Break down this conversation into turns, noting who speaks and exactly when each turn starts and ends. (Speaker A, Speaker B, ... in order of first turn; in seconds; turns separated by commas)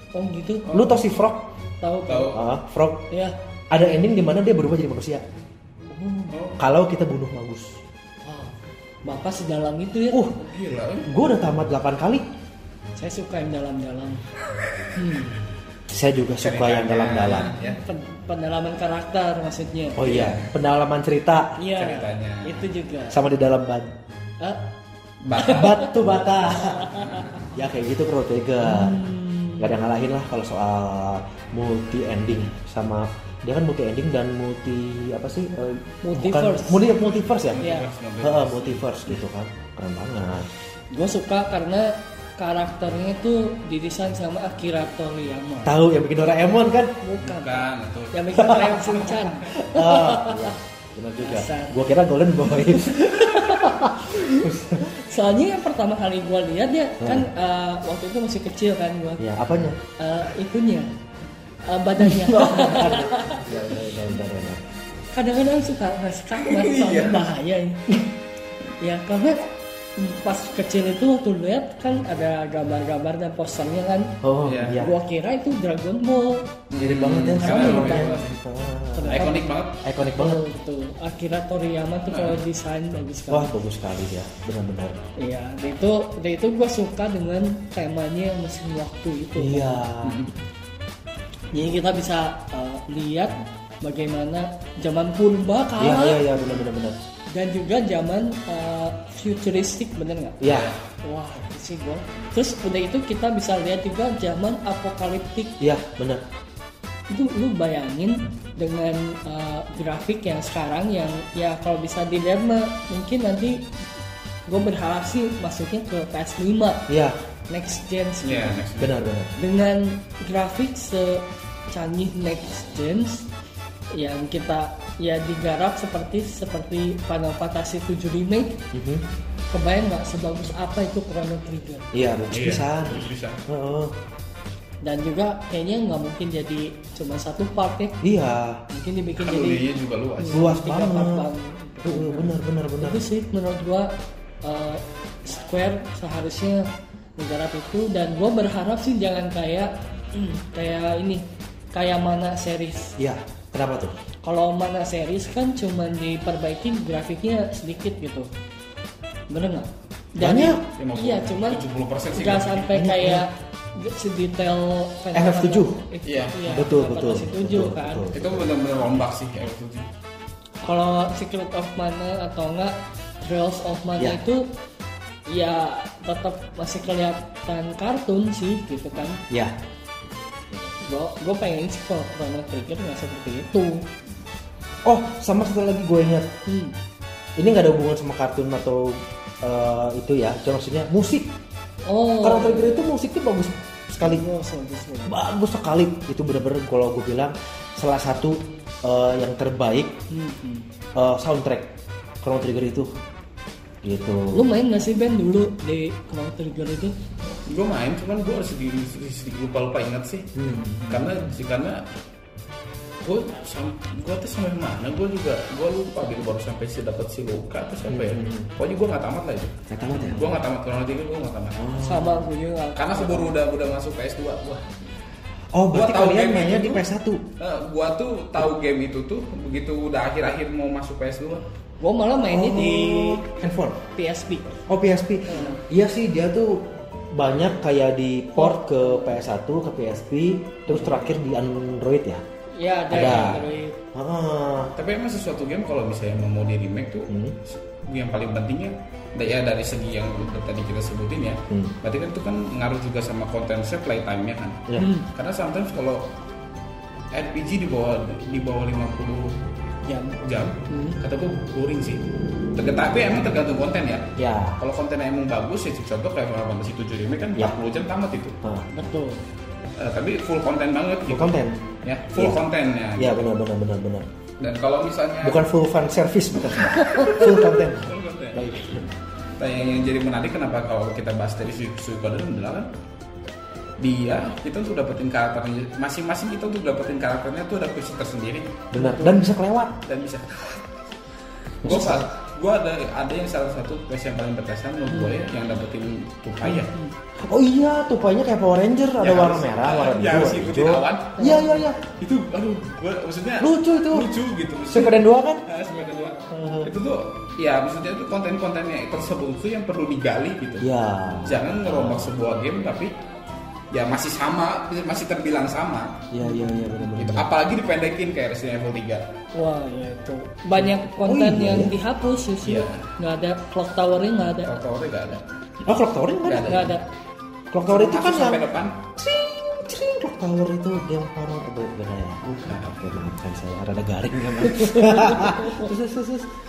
Speaker A: 0.1-0.9, Speaker B: 0.7-1.5, Speaker A: 1.8-2.4, Speaker C: 2.1-2.4, Speaker B: 2.3-3.1, Speaker A: 3.1-3.4, Speaker B: 3.7-5.2, Speaker A: 5.9-6.3, Speaker C: 6.3-6.6, Speaker B: 6.6-7.8, Speaker A: 8.2-8.5, Speaker A: 9.1-10.3, Speaker B: 10.1-10.4, Speaker C: 10.4-11.1, Speaker B: 11.1-12.3, Speaker A: 13.0-14.2, Speaker A: 14.9-15.4, Speaker B: 15.9-17.5, Speaker C: 16.4-17.8, Speaker A: 17.5-20.1, Speaker B: 20.0-21.6, Speaker C: 20.0-20.5, Speaker A: 21.6-23.2, Speaker C: 21.7-22.7, Speaker B: 23.1-23.9, Speaker A: 24.4-24.7, Speaker C: 25.2-25.8, Speaker A: 25.4-26.0, Speaker B: 25.4-27.0, Speaker A: 26.5-27.3, Speaker C: 27.0-27.4, Speaker B: 27.5-29.0, Speaker A: 28.6-29.8, Speaker B: 29.6-37.7, Speaker A: 36.0-36.8, Speaker C: 37.5-38.8, Speaker A: 37.6-37.9, Speaker B: 38.2-40.5, Speaker A: 40.9-45.7, Speaker B: 45.6-47.2, Speaker A: 47.0-50.5, Speaker C: 47.3-49.4, Speaker B: 49.5-54.9, Speaker A: 51.2-51.8, Speaker A: 52.6-59.2, Speaker B: 57.0-57.3, Speaker B: 59.2-59.8, Speaker A: 60.0-60.9, Speaker A: 61.7-63.5, Speaker B: 62.0-64.6, Speaker A: 65.1-68.0, Speaker C: 66.4-67.3, Speaker A: 68.8-74.2, Speaker B: 74.2-74.9, Speaker C: 74.4-74.8, Speaker A: 74.7-76.5, Speaker C: 76.7-78.3, Speaker B: 76.8-79.3, Speaker A: 77.4-78.2, Speaker A: 78.9-79.4, Speaker C: 79.1-79.8, Speaker B: 79.8-80.5, Speaker A: 80.2-83.5, Speaker C: 82.1-82.4, Speaker B: 83.3-85.0, Speaker A: 85.2-89.8, Speaker B: 89.4-90.3, Speaker C: 90.0-90.3, Speaker A: 91.5-96.6, Speaker B: 95.8-97.0, Speaker A: 97.3-100.4, Speaker B: 100.4-100.8, Speaker C: 100.4-100.8, Speaker A: 101.0-105.6, Speaker B: 105.6-106.2, Speaker A: 107.1-113.7, Speaker A: 114.5-116.9, Speaker B: 116.9-117.2, Speaker A: 117.5-118.6, Speaker C: 118.2-119.0, Speaker B: 118.8-119.3, Speaker A: 119.4-123.3, Speaker A: 123.9-128.6, Speaker B: 128.7-129.1, Speaker A: 129.5-131.9, Speaker B: 131.9-133.9, Speaker C: 132.3-133.4, Speaker A: 134.8-138.0, Speaker B: 138.0-138.7, Speaker A: 138.7-139.7, Speaker C: 139.2-140.5, Speaker A: 140.2-152.9, Speaker B: 140.3-141.3, Speaker B: 141.8-143.1, Speaker B: 153.0-154.0, Speaker A: 154.2-158.3, Speaker A: 159.3-168.1, Speaker B: 160.2-160.7, Speaker C: 160.8-162.7, Speaker B: 162.7-163.2, Speaker B: 165.1-165.8, Speaker C: 166.0-166.7, Speaker B: 166.5-168.5, Speaker C: 168.1-169.9, Speaker A: 170.6-174.5, Speaker A: 175.3-179.2, Speaker B: 179.3-179.6, Speaker A: 180.8-183.9, Speaker B: 184.8-186.3, Speaker A: 186.5-186.8, Speaker B: 187.4-191.3, Speaker A: 191.9-192.8, Speaker B: 192.2-194.2, Speaker A: 194.0-195.2, Speaker B: 195.1-200.0, Speaker A: 200.1-200.7, Speaker B: 201.0-202.9, Speaker B: 203.8-204.5, Speaker A: 204.3-206.9, Speaker C: 207.5-210.3, Speaker B: 210.3-211.1, Speaker C: 210.9-211.8, Speaker C: 213.0-221.8, Speaker B: 217.9-218.5, Speaker B: 219.7-220.4, Speaker B: 221.6-222.3, Speaker A: 221.8-223.3, Speaker C: 222.8-224.7, Speaker B: 225.5-227.2, Speaker C: 225.7-226.8, Speaker C: 227.4-231.4, Speaker A: 231.8-233.2, Speaker B: 232.2-233.8, Speaker A: 233.9-234.6, Speaker B: 234.7-242.2, Speaker A: 235.3-235.6, Speaker A: 238.4-239.1, Speaker A: 240.7-241.1, Speaker A: 242.6-243.8, Speaker B: 242.9-243.4, Speaker C: 242.9-243.4, Speaker B: 243.9-244.7, Speaker C: 244.8-256.0, Speaker B: 247.1-247.4, Speaker A: 254.8-255.1, Speaker C: 257.1-259.4, Speaker A: 259.9-260.2, Speaker C: 260.2-262.0, Speaker A: 260.7-261.0, Speaker C: 262.6-268.4, Speaker B: 264.2-264.6, Speaker B: 268.4-268.7, Speaker A: 268.7-269.2, Speaker C: 269.8-273.2, Speaker B: 271.1-271.6, Speaker B: 272.1-272.4, Speaker B: 273.0-274.1, Speaker C: 274.4-275.4, Speaker B: 275.2-278.9, Speaker C: 276.8-278.5, Speaker C: 279.4-282.7, Speaker C: 283.8-288.7, Speaker B: 288.7-289.8, Speaker A: 288.8-289.2, Speaker C: 289.8-290.9, Speaker C: 291.6-296.7, Speaker B: 291.6-292.1, Speaker A: 296.5-296.9, Speaker B: 297.2-301.9, Speaker C: 299.0-301.2, Speaker A: 301.2-301.7, Speaker C: 301.9-310.7, Speaker B: 303.4-304.1, Speaker B: 304.7-305.4, Speaker A: 305.8-306.2, Speaker B: 306.3-306.7, Speaker B: 310.6-312.1, Speaker C: 311.2-312.9, Speaker C: 313.7-316.1, Speaker B: 316.1-317.3, Speaker A: 316.2-316.7, Speaker C: 316.9-319.1, Speaker A: 319.3-324.5, Speaker B: 320.5-321.7, Speaker C: 322.4-322.9, Speaker C: 324.4-325.2, Speaker B: 325.7-326.7, Speaker C: 326.2-326.7, Speaker A: 326.4-326.9, Speaker B: 327.5-328.4, Speaker C: 327.7-328.8, Speaker B: 329.0-336.3, Speaker C: 332.2-332.8, Speaker A: 334.5-335.7